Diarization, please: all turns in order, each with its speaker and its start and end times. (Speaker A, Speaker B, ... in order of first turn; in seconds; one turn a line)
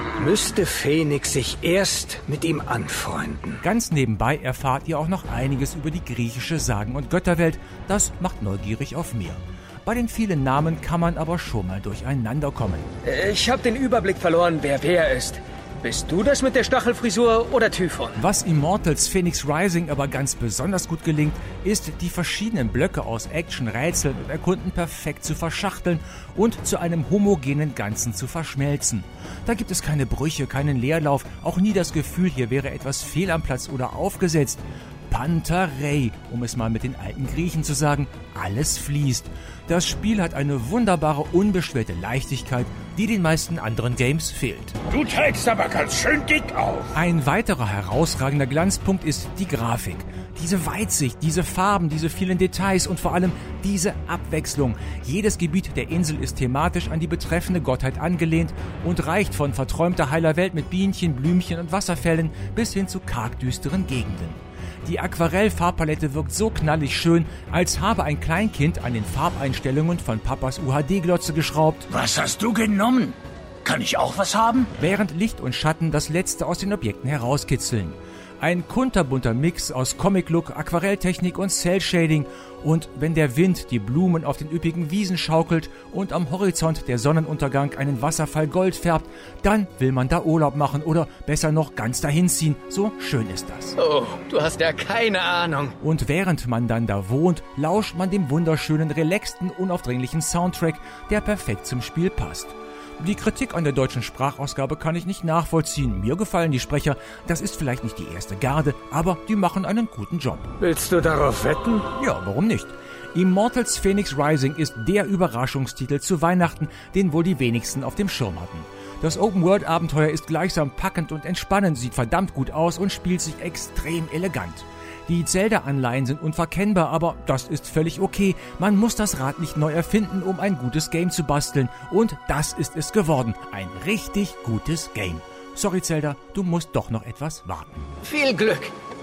Speaker A: 0.2-3.6
Speaker B: 3.6-12.9
Speaker C: 13.0-18.2
Speaker B: 18.2-44.8
Speaker D: 44.9-46.9
Speaker B: 46.9-71.9
Speaker D: 71.9-74.7
Speaker B: 74.8-93.8
Speaker E: 93.8-95.8
Speaker B: 95.8-110.5
Speaker A: 110.6-111.9
Speaker B: 111.9-137.9
Speaker E: 138.0-138.7